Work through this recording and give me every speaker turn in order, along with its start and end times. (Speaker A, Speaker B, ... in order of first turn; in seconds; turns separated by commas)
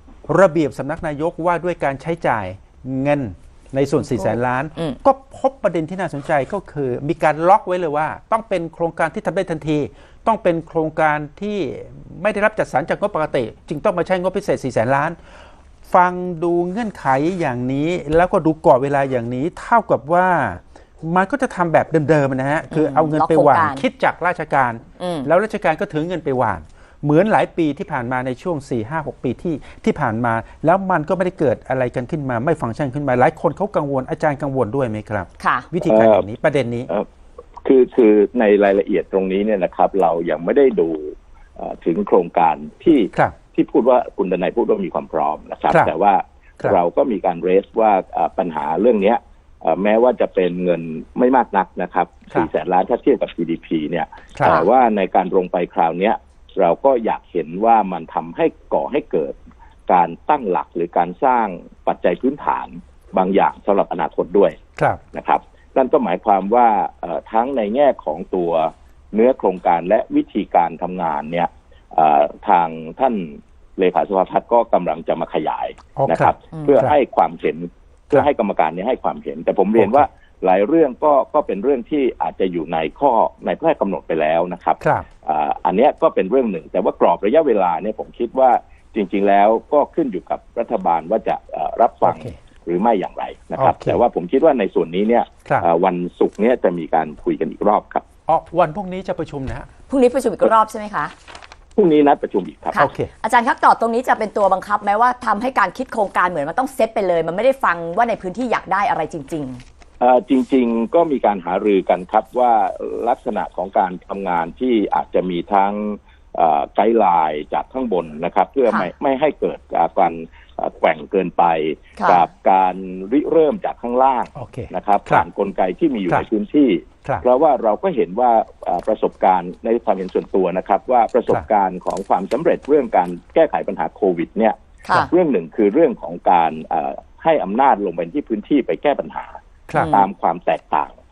Speaker A: 0.3-15.2, Speaker B: 4.1-5.0, Speaker A: 15.9-36.9, Speaker B: 22.7-23.9, Speaker B: 25.0-25.3, Speaker B: 35.4-35.7, Speaker C: 35.9-36.3, Speaker C: 37.6-59.4, Speaker A: 54.4-54.6, Speaker C: 59.9-64.6, Speaker C: 65.1-98.0, Speaker A: 76.0-76.9, Speaker B: 76.5-76.8, Speaker A: 79.8-80.1, Speaker A: 84.8-85.1, Speaker A: 92.0-92.4, Speaker A: 93.6-94.0, Speaker A: 98.3-99.7, Speaker B: 99.9-101.1, Speaker C: 101.8-102.9, Speaker B: 102.7-109.6, Speaker A: 102.8-103.1, Speaker C: 110.0-141.0, Speaker B: 122.0-122.3, Speaker A: 124.3-125.3, Speaker A: 139.7-140.0, Speaker B: 139.7-140.1